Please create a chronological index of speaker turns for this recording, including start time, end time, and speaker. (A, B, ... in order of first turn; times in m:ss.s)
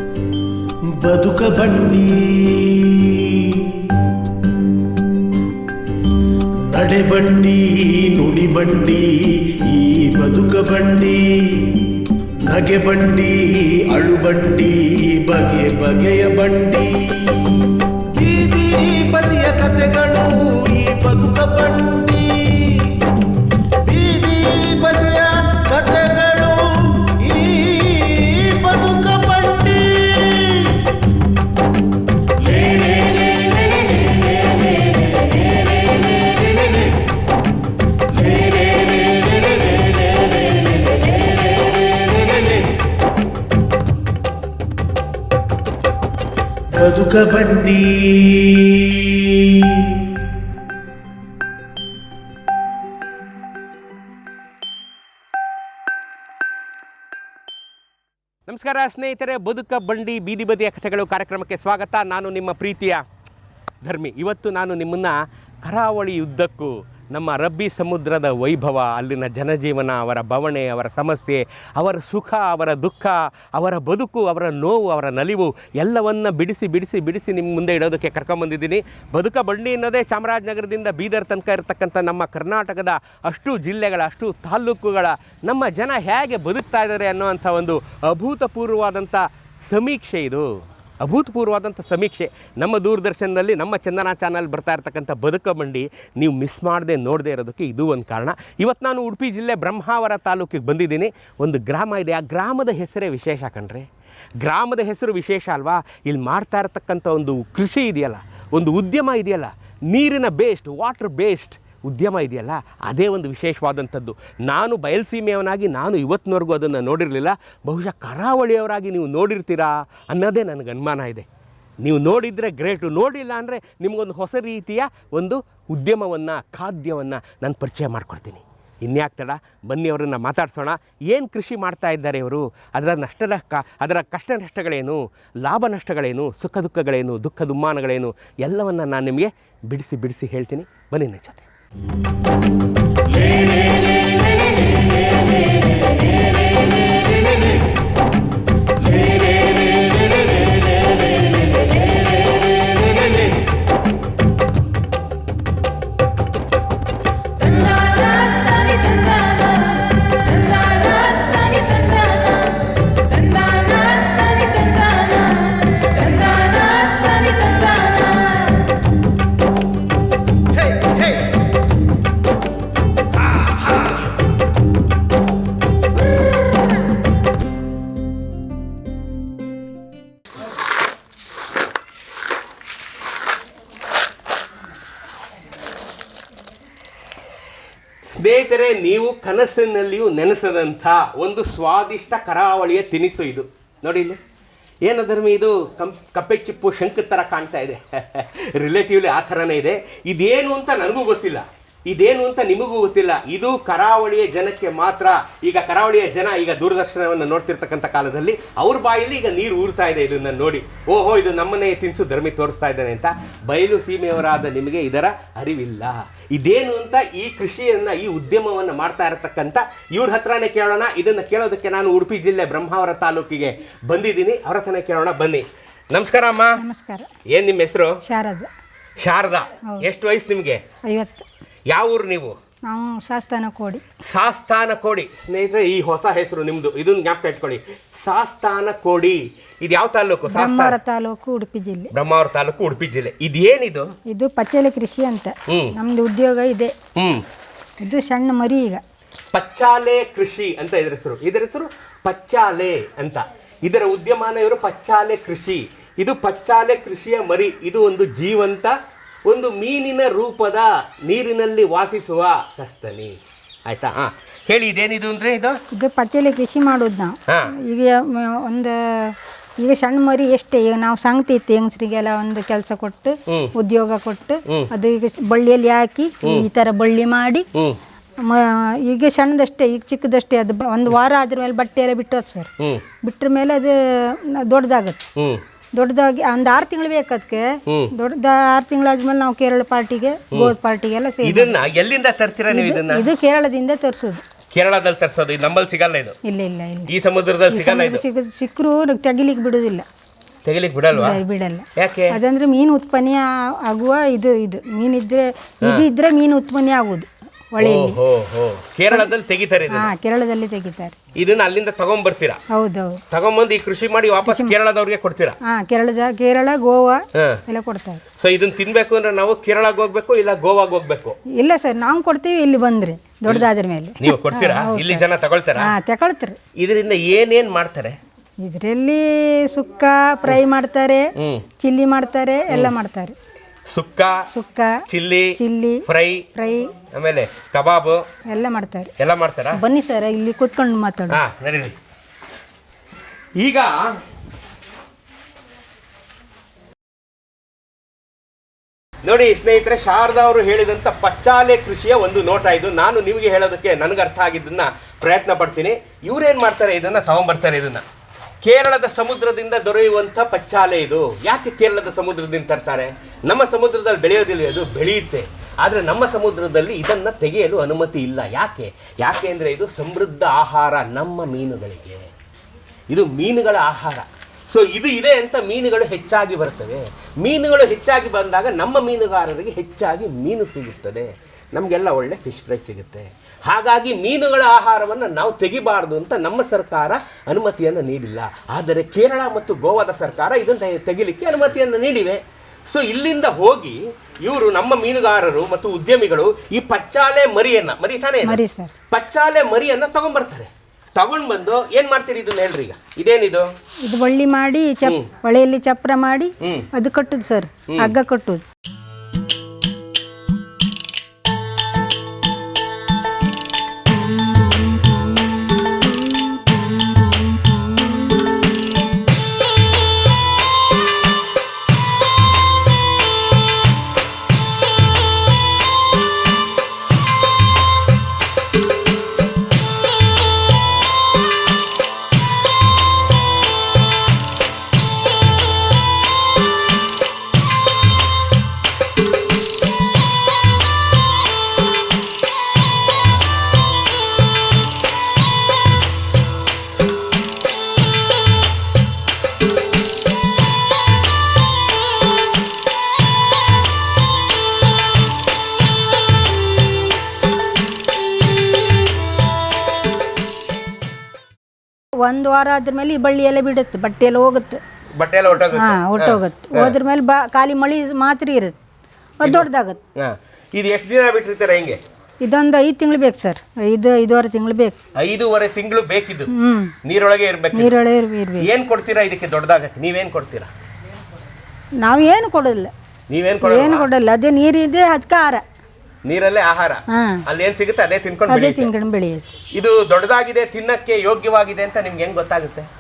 0:00.9-0:03.8 A
0:06.7-0:11.9 A
0:12.4-0:23.1 A
0:23.8-0:30.9 A
0:32.4-0:37.0 A
0:38.1-0:42.7 A
0:46.7-0:50.2 A
0:58.5-1:03.0 B
1:03.8-1:43.9 B
1:44.4-2:01.3 B
2:01.8-2:21.5 B
2:23.2-2:24.2 A
2:28.8-2:29.9 A
2:37.8-2:39.1 A
2:43.5-2:44.9 A
2:46.4-2:46.6 A
2:47.3-2:47.9 A
3:08.1-3:14.2 B
3:14.8-3:46.6 B
3:46.6-3:47.1 C
3:47.3-3:48.0 B
3:48.0-3:48.5 C
3:49.0-3:50.6 B
3:50.9-3:51.2 C
3:51.7-3:52.4 B
3:52.7-3:53.8 C
3:54.0-4:00.8 B
4:00.3-4:01.9 C
4:01.9-4:03.9 B
4:04.1-4:06.8 C
4:05.5-4:05.8 B
4:07.0-4:07.2 B
4:07.8-4:08.8 C
4:09.3-4:25.6 B
4:25.7-4:37.5 C
4:27.3-4:27.5 B
4:33.3-4:33.5 B
4:36.2-4:36.5 B
4:37.5-4:37.8 B
4:38.2-4:42.5 C
4:42.6-4:42.8 B
4:43.0-4:45.0 C
4:45.2-4:45.4 B
4:45.8-4:51.6 C
4:47.7-4:47.9 B
4:51.2-4:53.1 B
4:52.5-4:54.2 C
4:54.5-4:56.2 B
4:56.2-4:56.9 C
4:56.9-4:58.0 B
4:57.5-4:59.9 C
5:00.4-5:01.2 B
5:00.9-5:08.0 C
5:01.8-5:02.2 B
5:07.6-5:09.9 B
5:09.7-5:11.0 C
5:11.2-5:12.4 B
5:12.5-5:13.0 C
5:13.1-5:15.4 B
5:14.3-5:14.5 C
5:15.4-5:18.0 C
5:17.1-5:17.4 B
5:18.2-5:21.2 B
5:21.3-5:25.0 C
5:24.0-5:25.7 B
5:25.6-5:26.4 C
5:26.6-5:28.0 B
5:28.4-5:33.2 C
5:31.2-5:31.5 B
5:32.5-5:32.8 B
5:33.7-5:34.3 B
5:34.3-5:34.8 C
5:34.9-5:36.3 B
5:35.4-5:36.8 C
5:36.8-5:38.0 B
5:38.3-5:38.9 C
5:39.0-5:39.6 B
5:39.5-5:41.2 C
5:41.1-5:41.8 B
5:43.4-5:44.0 B
5:49.0-5:57.8 B
5:58.4-6:12.1 B
6:12.9-6:43.5 B
6:38.2-6:38.7 C
6:43.9-6:48.4 C
6:44.8-6:45.1 B
6:46.4-6:46.7 B
6:47.7-6:48.0 B
7:42.0-7:44.6 C
7:45.0-7:46.8 B
7:45.5-7:48.6 C
7:49.2-7:49.8 C
7:49.2-7:51.8 B
7:52.2-7:54.8 C
7:55.0-7:56.3 B
7:56.3-7:56.7 C
7:56.8-7:57.8 B
7:57.5-7:58.5 C
7:58.4-8:00.5 B
8:01.8-8:02.7 C
8:03.1-8:03.9 B
8:03.4-8:05.4 C
8:06.0-8:08.7 B
8:06.9-8:07.2 C
8:08.3-8:09.3 C
8:09.5-8:12.7 B